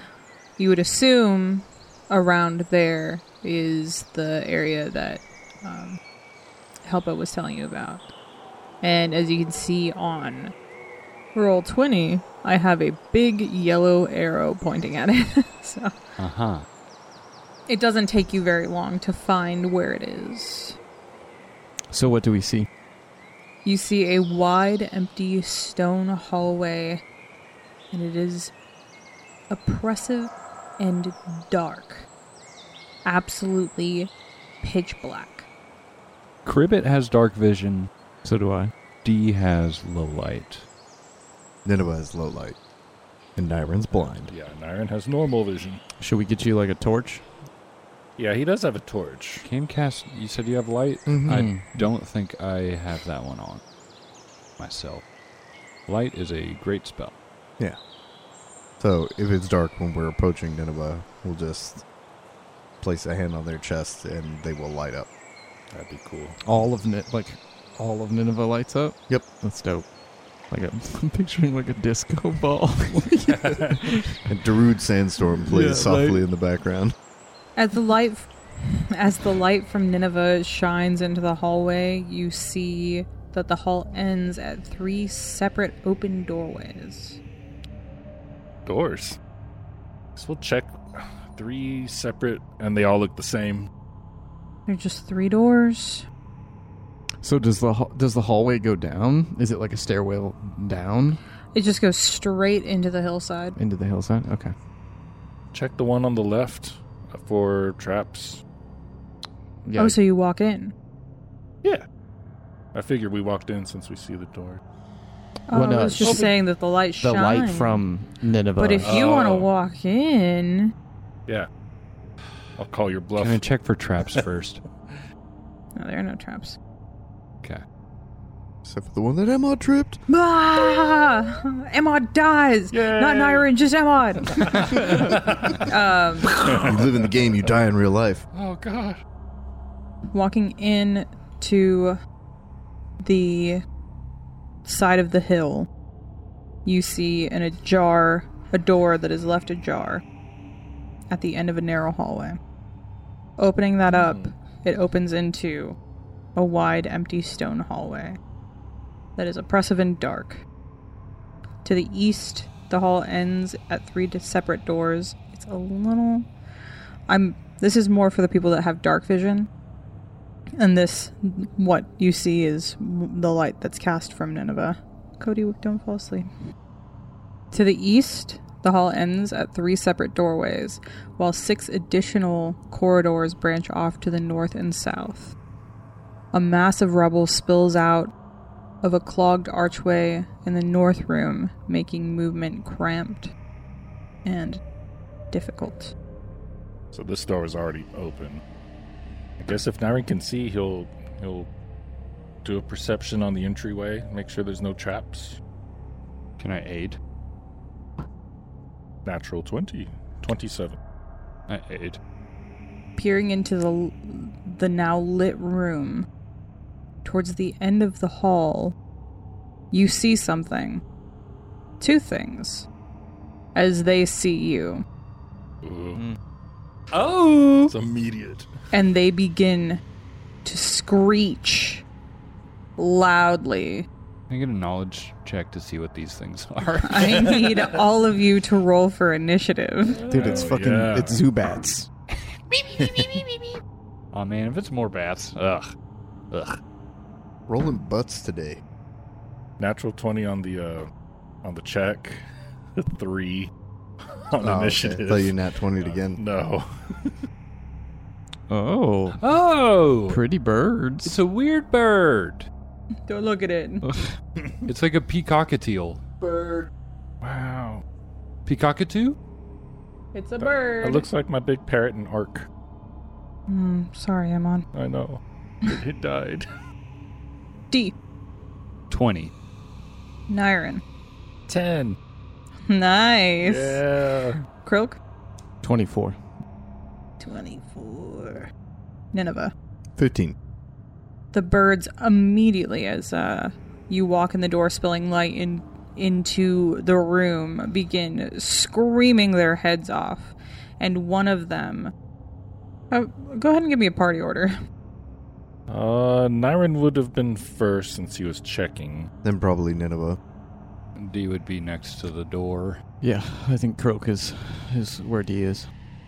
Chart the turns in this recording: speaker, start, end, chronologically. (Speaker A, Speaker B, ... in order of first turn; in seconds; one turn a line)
Speaker A: 0.6-6.0
Speaker A: 6.9-8.0
Speaker A: 8.8-10.5
Speaker A: 11.3-15.9
Speaker B: 16.2-16.7
Speaker A: 17.7-20.8
Speaker C: 21.9-22.7
Speaker A: 23.6-27.0
Speaker A: 27.9-28.5
Speaker A: 29.5-32.1
Speaker A: 33.0-34.1
Speaker A: 34.6-35.5
Speaker B: 36.5-37.9
Speaker C: 38.2-38.7
Speaker B: 39.0-40.6
Speaker D: 41.6-42.6
Speaker D: 43.4-44.3
Speaker E: 44.3-45.8
Speaker C: 46.0-47.2
Speaker E: 48.2-49.5
Speaker B: 49.5-53.6
Speaker D: 51.1-51.5
Speaker C: 51.2-51.6
Speaker B: 54.6-55.0
Speaker B: 55.9-57.1
Speaker D: 58.8-61.8
Speaker D: 62.8-65.1
Speaker E: 65.7-66.4
Speaker C: 66.4-69.9
Speaker C: 70.5-74.1
Speaker E: 73.4-73.8
Speaker D: 74.2-76.9
Speaker C: 75.5-76.2
Speaker A: 77.6-87.2
Speaker E: 88.7-89.2
Speaker E: 90.2-93.7
Speaker A: 94.7-96.1
Speaker C: 97.2-101.2
Speaker A: 101.5-103.5
Speaker C: 103.6-104.5
Speaker E: 105.5-108.4
Speaker C: 109.7-110.0
Speaker A: 109.8-110.7
Speaker E: 112.7-114.6
Speaker A: 115.5-117.8
Speaker C: 115.5-116.3
Speaker E: 116.0-116.3
Speaker C: 117.0-119.1
Speaker A: 118.6-120.7
Speaker E: 118.8-119.5
Speaker E: 122.6-123.4
Speaker B: 123.2-124.6
Speaker A: 125.8-126.6
Speaker D: 128.7-130.0
Speaker A: 130.1-136.5
Speaker E: 132.7-133.5
Speaker E: 134.3-135.6
Speaker E: 136.3-136.8
Speaker D: 136.5-138.2
Speaker E: 138.3-139.0
Speaker A: 140.1-142.0
Speaker A: 143.0-143.6
Speaker A: 144.7-145.7
Speaker A: 146.7-150.0
Speaker A: 151.1-152.4
Speaker A: 153.4-155.8
Speaker E: 153.9-154.3
Speaker A: 156.3-158.2
Speaker A: 159.2-160.4
Speaker A: 161.7-166.3
Speaker A: 167.1-169.5
Speaker A: 170.6-176.3
Speaker A: 177.5-185.3
Speaker A: 186.3-188.1
Speaker A: 188.8-193.3
Speaker A: 194.2-194.6
Speaker A: 195.3-195.9
Speaker E: 196.9-198.4
Speaker E: 199.4-201.5
Speaker E: 202.4-205.4
Speaker B: 206.4-207.0
Speaker E: 209.1-210.8
Speaker B: 211.5-212.0
Speaker A: 213.0-216.1
Speaker A: 217.0-218.7
Speaker A: 219.7-220.8
Speaker A: 221.8-222.7
Speaker A: 223.6-224.8
Speaker E: 225.6-226.0
Speaker B: 226.9-227.7
Speaker E: 227.7-228.5
Speaker A: 228.7-229.8
Speaker A: 230.4-231.8
Speaker A: 232.8-233.9
Speaker B: 234.3-237.5
Speaker A: 236.8-240.0
Speaker E: 239.9-241.2
Speaker C: 240.1-241.9
Speaker B: 242.5-243.6
Speaker B: 244.1-245.7
Speaker B: 246.3-246.6
Speaker D: 247.5-248.6
Speaker E: 249.6-250.9
Speaker E: 251.4-252.2
Speaker E: 252.8-253.5
Speaker E: 254.2-257.1
Speaker D: 254.4-256.2
Speaker C: 258.5-259.2
Speaker B: 259.2-260.2
Speaker C: 260.1-261.2
Speaker B: 261.1-262.5
Speaker A: 263.1-263.9
Speaker C: 263.8-264.2
Speaker B: 264.6-266.0
Speaker D: 266.2-266.7
Speaker E: 267.2-267.8
Speaker B: 268.5-269.2
Speaker A: 270.1-271.1
Speaker E: 270.4-272.5
Speaker A: 273.5-274.6
Speaker E: 274.7-276.5
Speaker B: 278.9-279.3
Speaker A: 280.3-280.8
Speaker E: 281.5-282.0
Speaker A: 282.7-283.8
Speaker E: 283.4-284.5
Speaker A: 284.6-285.0
Speaker C: 285.6-286.2
Speaker A: 287.2-288.5
Speaker A: 289.1-289.5
Speaker D: 290.0-290.4
Speaker A: 291.3-301.9
Speaker A: 302.9-304.6
Speaker E: 305.7-309.1
Speaker D: 309.2-310.2
Speaker B: 311.0-312.8
Speaker C: 313.0-315.7